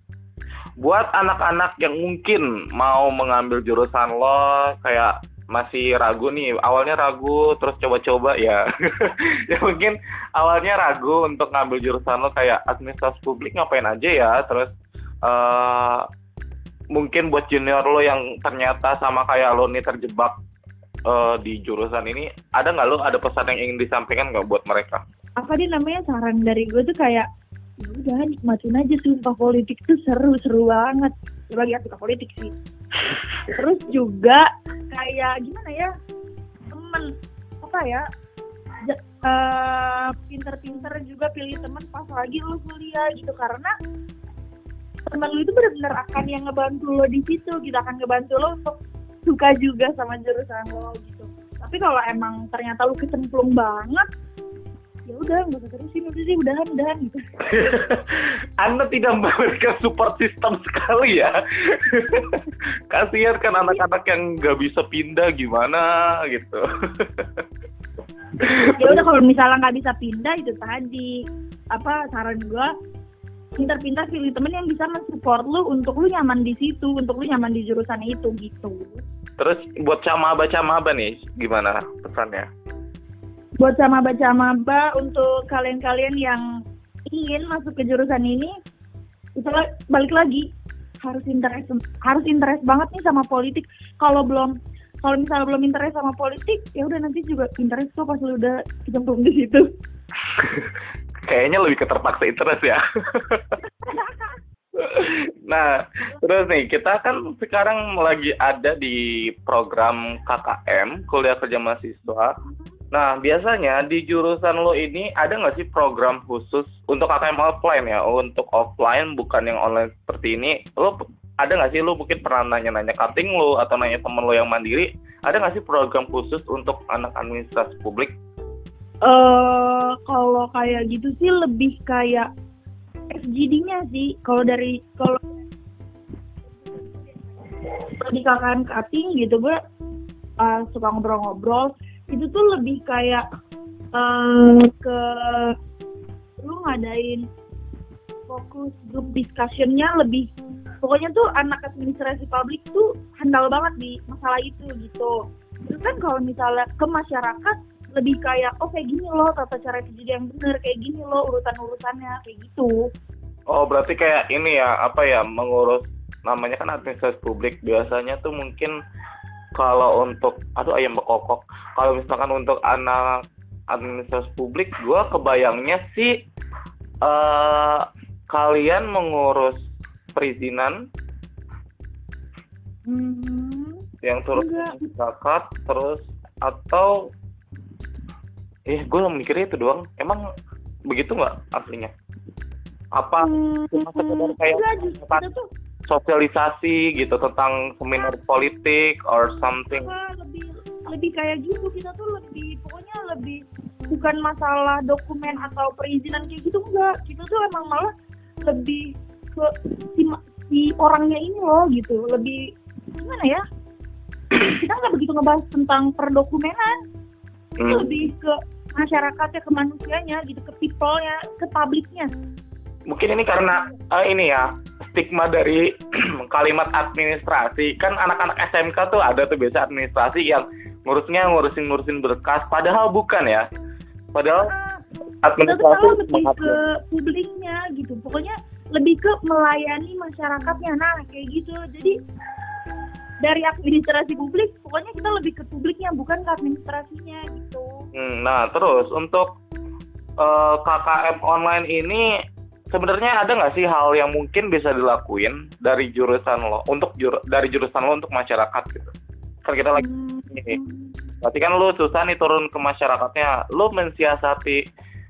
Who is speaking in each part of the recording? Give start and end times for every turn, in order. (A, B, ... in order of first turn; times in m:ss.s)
0:00.8-0:14.7 A
0:15.2-0:16.0 A
0:16.9-0:20.4 A
0:21.1-0:25.0 A
0:25.4-0:27.2 B
0:27.8-0:32.6 B
0:33.5-0:35.9 B
0:36.7-0:37.1 B
0:37.6-0:38.0 B
0:38.8-0:43.7 B
0:45.1-0:54.1 B
0:55.1-0:57.2 B
0:57.4-1:07.4 A
1:08.4-1:09.0 A
1:08.8-1:11.2 B
1:11.7-1:12.7 B
1:13.6-1:19.0 B
1:19.4-1:22.5 A
1:23.6-1:26.4 B
1:27.1-1:28.5 B
1:29.4-1:30.5 B
1:31.0-1:39.6 B
1:40.3-1:40.8 A
1:41.3-1:43.6 A
1:43.8-1:44.4 B
1:44.8-1:52.4 A
1:52.9-2:08.1 A
2:09.0-2:12.3 B
2:13.1-2:15.3 B
2:16.6-2:17.3 B
2:18.0-2:19.6 B
2:20.4-2:23.2 B
2:23.9-2:25.6 B
2:26.4-2:27.2 B
2:28.3-2:30.3 B
2:30.8-2:35.2 B
2:35.7-2:42.8 B
2:43.5-2:48.7 A
2:49.6-2:56.1 A
2:57.0-2:59.6 A
3:00.2-3:00.8 A
3:02.9-3:03.8 B
3:04.0-3:07.0 A
3:04.4-3:04.9 B
3:08.7-3:10.2 A
3:10.9-3:11.9 A
3:13.0-3:15.2 A
3:13.2-3:15.4 B
3:15.9-3:19.9 A
3:19.8-3:27.9 B
3:28.4-3:33.4 B
3:34.3-3:36.8 B
3:37.6-3:37.9 A
3:37.7-3:42.1 B
3:42.9-3:53.4 A
3:54.1-3:54.5 A
3:54.5-3:54.8 B
3:55.2-3:56.6 A
3:55.4-4:02.0 B
4:03.2-4:07.8 B
4:07.9-4:09.3 A
4:10.2-4:12.0 A
4:12.7-4:18.9 A
4:19.4-4:20.6 A
4:19.8-4:21.2 B
4:21.2-4:24.6 A